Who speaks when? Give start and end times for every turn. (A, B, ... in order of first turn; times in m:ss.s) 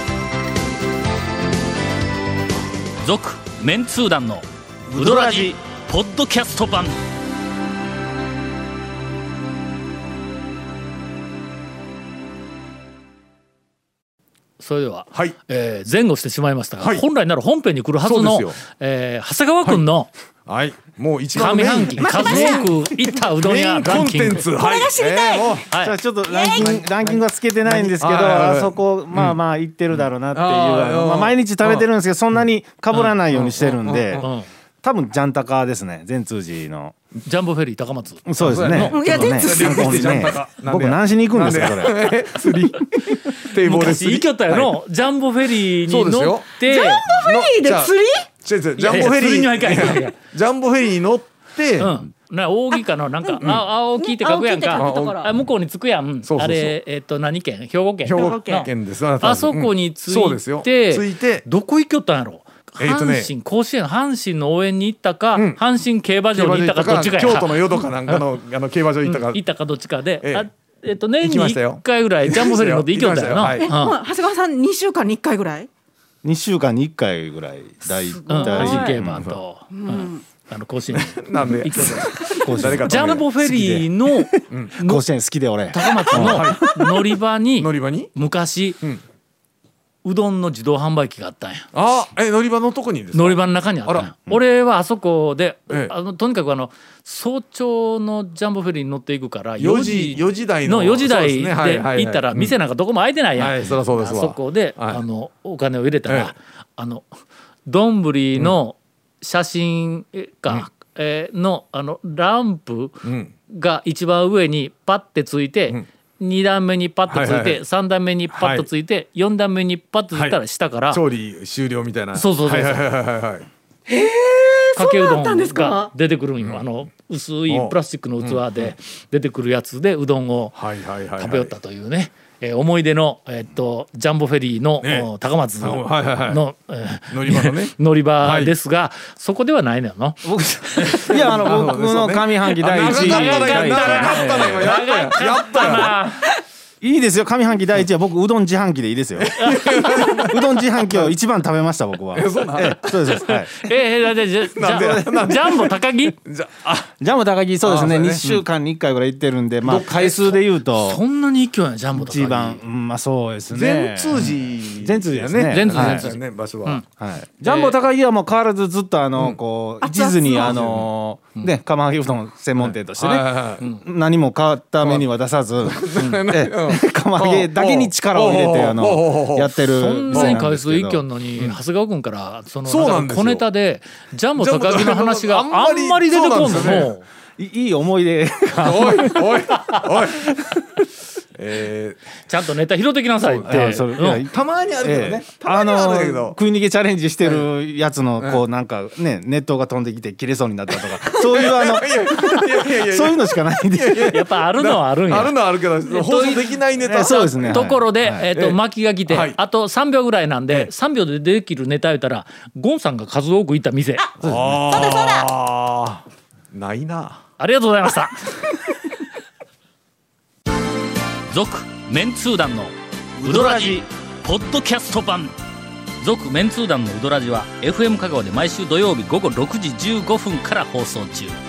0:03.0-0:07.0 A
0:04.9-0:05.5 B
0:14.6-0:20.1 A
0:18.0-0:18.6 C
0:20.4-0:22.9 C
0:21.3-0:24.5 A
0:22.0-0:22.7 D
0:23.4-0:25.7 C
0:24.4-0:25.6 D
0:25.7-0:26.0 A
0:25.7-0:34.3 B
0:26.2-0:26.8 D
0:26.6-0:29.4 C
0:30.3-0:31.9 C
0:33.3-0:34.2 C
0:34.1-0:34.5 A
0:34.8-0:36.9 B
0:37.2-0:39.5 A
0:38.2-0:42.2 B
0:38.4-0:44.7 C
0:38.9-0:40.3 D
0:43.6-0:47.1 A
0:45.8-0:46.6 C
0:46.7-0:48.3 D
0:47.1-0:51.9 C
0:48.8-0:50.1 A
0:51.8-0:58.7 A
0:54.0-0:55.3 D
0:54.7-0:55.2 C
0:56.2-0:56.7 C
0:58.0-1:01.4 C
0:58.1-0:58.7 D
0:59.2-1:08.2 A
1:02.8-1:03.3 C
1:05.3-1:05.6 C
1:06.3-1:09.4 C
1:09.0-1:14.0 A
1:11.2-1:13.7 C
1:13.6-1:15.7 D
1:16.2-1:19.0 B
1:18.0-1:19.0 D
1:18.3-1:25.0 A
1:19.0-1:19.4 C
1:19.7-1:20.2 D
1:20.9-1:23.3 C
1:22.2-1:22.6 D
1:22.4-1:26.6 B
1:24.5-1:24.8 C
1:25.7-1:28.8 A
1:26.1-1:26.6 C
1:27.6-1:28.1 C
1:30.0-1:31.7 A
1:31.7-1:34.4 C
1:33.1-1:47.1 A
1:39.6-1:42.5 C
1:43.4-1:45.0 C
1:46.1-1:46.3 C
1:47.6-2:01.0 A
1:53.0-1:53.3 C
1:57.1-1:57.6 C
1:58.3-1:58.7 C
2:00.1-2:00.4 C
2:00.9-2:03.5 C
2:02.1-2:02.8 A
2:03.9-2:05.9 D
2:04.8-2:10.6 A
2:07.5-2:08.7 C
2:10.5-2:11.5 C
2:11.2-2:20.2 A
2:14.8-2:15.1 C
2:15.6-2:16.4 C
2:17.1-2:18.5 C
2:20.2-2:24.7 B
2:20.8-2:21.6 A
2:21.1-2:25.9 C
2:22.6-2:26.3 A
2:26.8-2:33.5 B
2:29.2-2:31.1 C
2:29.3-2:30.2 A
2:32.1-2:32.9 C
2:33.0-2:36.1 A
2:34.6-2:36.9 C
2:34.7-2:35.0 B
2:37.0-2:41.0 B
2:37.6-2:38.4 C
2:39.6-2:40.4 C
2:40.7-2:42.6 A
2:41.9-2:46.1 B
2:43.5-2:46.8 C
2:45.5-2:46.8 A
2:47.0-3:01.0 B
2:47.4-2:47.8 A
2:50.2-2:50.9 C
2:52.7-2:53.6 C
2:54.8-2:55.1 C
2:55.6-2:59.6 C
2:59.6-3:07.0 A
3:00.1-3:00.4 C
3:02.6-3:03.4 C
3:04.4-3:06.9 C
3:07.4-3:09.6 B
3:08.6-3:10.3 C
3:11.3-3:12.0 C
3:12.3-3:14.2 A
3:13.2-3:13.5 C
3:13.4-3:24.2 B
3:14.3-3:16.4 C
3:21.0-3:27.7 C
3:24.0-3:34.1 A
3:26.8-3:28.3 B
3:28.3-3:29.4 C
3:34.2-3:37.2 C
3:34.7-3:35.2 D
3:37.4-3:38.6 A
3:41.3-3:45.3 A
3:46.0-3:51.4 A